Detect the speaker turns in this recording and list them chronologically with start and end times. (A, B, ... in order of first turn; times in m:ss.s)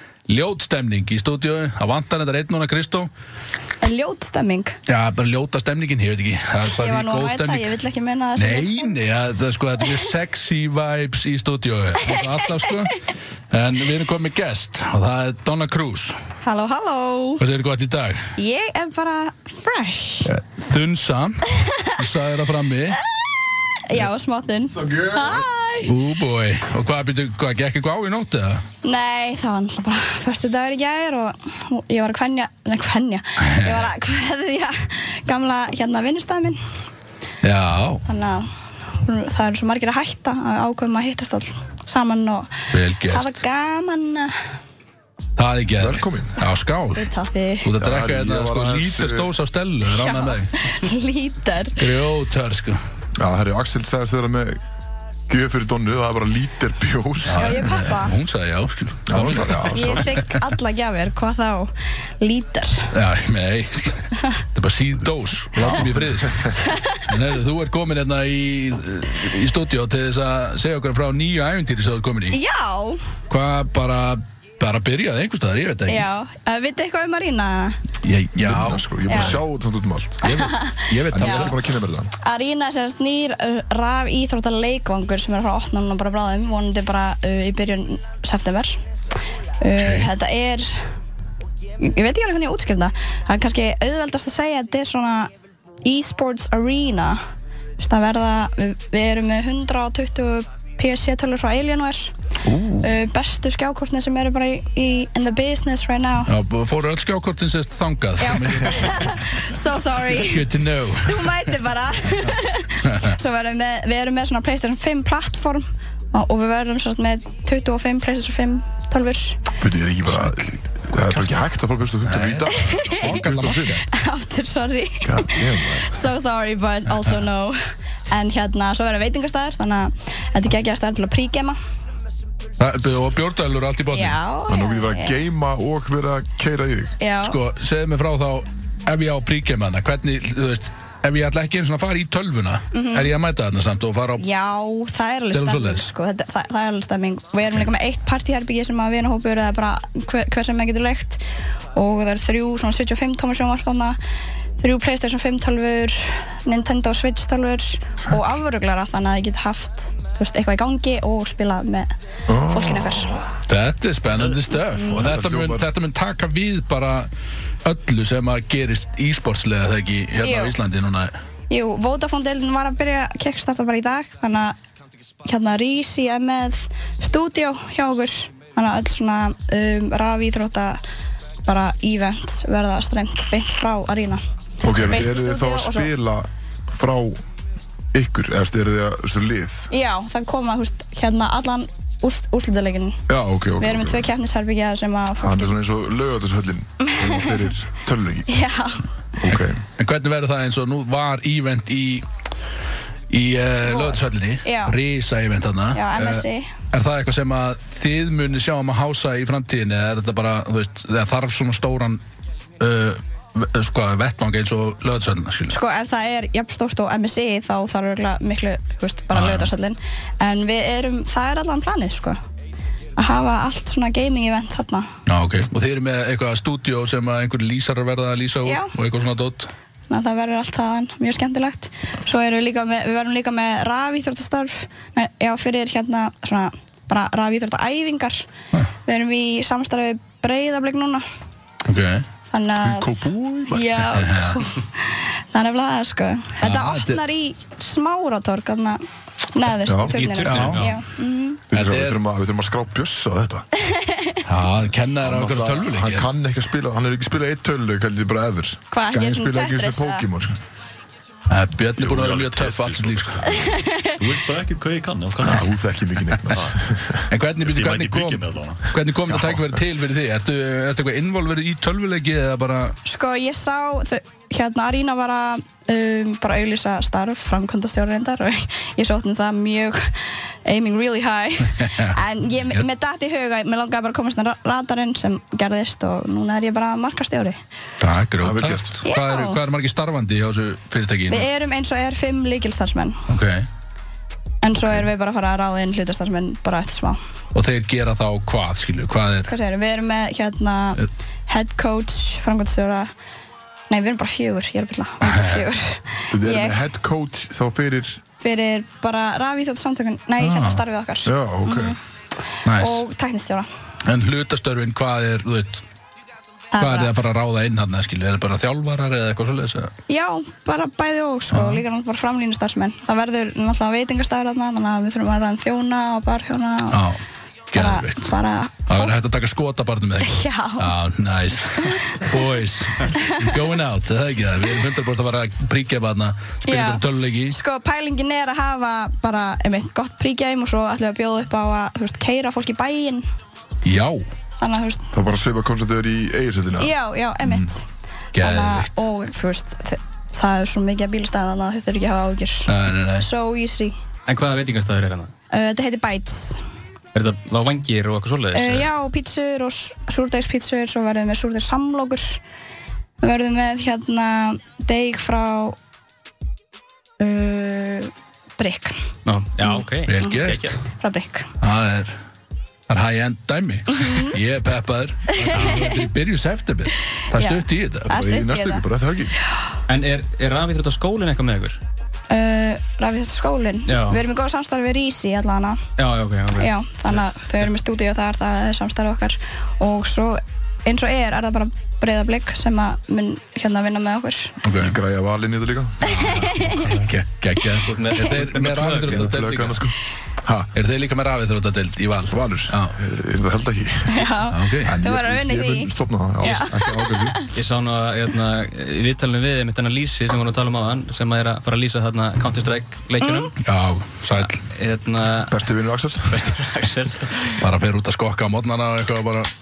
0:00.3-0:03.1 A
0:03.8-0:04.8 B
0:04.9-0:07.7 A
0:06.6-0:09.0 B
0:08.4-0:16.2 A
0:12.1-0:12.4 B
0:16.4-0:17.4 B
0:17.4-0:18.3 A
0:18.4-0:20.3 B
0:20.2-0:23.0 A
0:21.6-0:21.9 B
0:23.9-0:25.9 B
0:24.7-0:25.5 C
0:25.9-0:28.6 A
0:28.8-0:36.6 B
0:33.4-0:33.9 A
0:37.4-0:38.0 A
0:38.1-0:38.5 B
0:39.0-0:42.5 B
0:42.7-0:43.4 A
0:43.1-0:44.3 B
0:45.4-0:47.1 A
0:45.8-0:46.5 C
0:47.0-0:47.7 B
0:47.6-0:50.6 A
0:47.8-0:49.4 C
0:49.9-0:51.9 B
0:51.8-0:52.8 A
0:53.2-0:54.6 C
0:55.3-0:57.8 C
0:57.2-1:00.4 A
0:57.3-0:58.2 B
0:59.1-1:00.2 C
0:59.7-1:02.9 B
1:02.9-1:12.4 A
1:05.6-1:06.6 C
1:06.6-1:07.0 B
1:12.3-1:13.0 B
1:13.3-1:16.1 A
1:15.9-1:17.8 B
1:18.0-1:19.4 A
1:18.4-1:20.5 C
1:19.1-1:19.3 B
1:20.2-1:21.7 A
1:20.3-1:21.5 B
1:21.1-1:22.1 C
1:22.2-1:28.8 B
1:29.6-1:30.7 B
1:29.8-1:30.1 A
1:31.8-1:35.3 B
1:35.8-1:37.2 B
1:37.8-1:42.1 B
1:42.4-1:43.0 A
1:42.8-1:46.3 B
1:46.3-1:49.2 A
1:48.2-1:59.4 B
1:50.1-1:51.5 A
1:52.8-1:53.2 A
1:59.6-2:03.8 C
2:00.1-2:00.5 A
2:02.0-2:03.9 A
2:02.5-2:03.3 B
2:03.9-2:07.6 B
2:05.0-2:06.1 C
2:06.9-2:07.2 A
2:08.1-2:11.6 B
2:12.6-2:14.2 A
2:13.9-2:15.2 B
2:14.5-2:17.0 C
2:17.0-2:17.4 B
2:17.2-2:24.2 A
2:22.7-2:23.1 B
2:24.2-2:31.2 B
2:25.3-2:25.9 A
2:31.8-2:34.0 B
2:34.6-2:41.9 B
2:42.3-2:43.3 C
2:42.5-2:43.2 B
2:43.5-2:47.1 A
2:44.8-2:45.7 C
2:47.6-2:51.1 A
2:50.2-2:50.6 B
2:51.5-2:54.6 B
2:55.2-3:00.8 B
3:01.5-3:05.9 B
3:04.6-3:07.2 C
3:07.9-3:09.7 C
3:09.7-3:13.0 B
3:13.1-3:14.1 C
3:13.6-3:15.5 B
3:15.2-3:18.4 C
3:16.8-3:17.5 B
3:18.3-3:18.8 B
3:19.2-3:19.6 C
3:19.2-3:22.1 A
3:23.1-3:32.0 A
3:23.6-3:24.8 B
3:25.7-3:26.5 B
3:32.6-3:35.6 A
3:35.5-3:42.2 B
3:39.1-3:39.5 A
3:43.0-3:44.9 B
3:45.1-3:49.5 A
3:48.4-3:48.7 B
3:49.9-3:58.2 B
3:58.9-4:01.0 B
4:01.7-4:02.1 A
4:02.3-4:02.9 B
4:02.6-4:04.0 C
4:03.5-4:08.8 B
4:03.9-4:04.4 A
4:06.4-4:07.0 A
4:09.3-4:11.4 B
4:09.7-4:10.0 C
4:09.9-4:10.8 D
4:10.2-4:10.7 A
4:11.5-4:13.5 C
4:11.5-4:12.0 A
4:13.6-4:14.2 B
4:14.2-4:16.1 A
4:15.0-4:20.4 C
4:18.7-4:20.1 B
4:21.3-4:23.3 A
4:21.8-4:25.6 E
4:23.3-4:24.1 B
4:25.2-4:27.0 C
4:26.2-4:26.6 E
4:27.1-4:32.8 A
4:27.4-4:28.7 E
4:29.1-4:29.6 C
4:32.9-4:39.9 B
4:40.4-4:47.4 B
4:41.5-4:42.0 A
4:47.8-4:51.3 A
4:48.2-4:48.8 C
4:48.8-4:49.4 B
4:51.1-4:53.0 B
4:53.1-4:53.5 A
4:54.4-4:57.0 B
4:54.6-4:54.9 A
4:57.3-4:59.3 A
4:59.3-5:02.9 B
5:03.7-5:06.6 B
5:05.0-5:05.5 A
5:06.1-5:08.0 C
5:08.2-5:11.8 B
5:10.2-5:10.6 A
5:11.0-5:11.8 C
5:12.4-5:12.8 A
5:12.6-5:13.5 B
5:13.8-5:15.6 A
5:16.5-5:16.9 B
5:16.6-5:19.7 A
5:19.9-5:26.8 B
5:21.3-5:21.6 A
5:26.7-5:27.0 A
5:27.5-5:28.1 A
5:27.6-5:29.0 B
5:28.7-5:37.4 A
5:30.0-5:30.7 B
5:31.6-5:32.0 B
5:33.0-5:33.3 B
5:36.5-5:43.0 B
5:43.6-5:44.0 A
5:44.4-5:44.9 B
5:44.9-5:47.5 C
5:46.6-5:47.6 B
5:48.1-5:48.8 A
5:48.2-5:53.8 B
5:52.5-5:53.1 A
5:54.1-5:55.1 D
5:55.3-5:56.4 B
5:56.9-5:58.7 D
5:58.3-6:02.2 B
6:03.0-6:05.6 B
6:07.0-6:08.8 B
6:09.0-6:10.6 D
6:09.4-6:11.3 B
6:09.9-6:10.6 A
6:11.4-6:11.9 A
6:12.7-6:17.9 A
6:13.7-6:14.2 B
6:15.2-6:15.9 B
6:15.3-6:15.7 D
6:17.2-6:18.6 B
6:17.8-6:19.2 C
6:19.7-6:21.6 D
6:22.1-6:25.6 B
6:23.7-6:24.0 D
6:25.8-6:26.5 D
6:26.4-6:34.4 B
6:34.4-6:34.8 A
6:34.5-6:36.1 C
6:35.8-6:39.6 A
6:35.8-6:36.8 B
6:37.7-6:39.2 D
6:38.8-6:40.5 C
6:40.5-6:42.8 A
6:42.1-6:47.2 C
6:43.9-6:45.7 B
6:44.3-6:44.7 A
6:46.2-6:47.3 B
6:47.3-6:53.4 D
6:53.0-6:53.3 B
6:53.4-6:54.4 A
6:54.2-6:55.4 D
6:55.3-6:56.2 C
6:56.1-6:57.4 D
6:57.4-6:59.3 A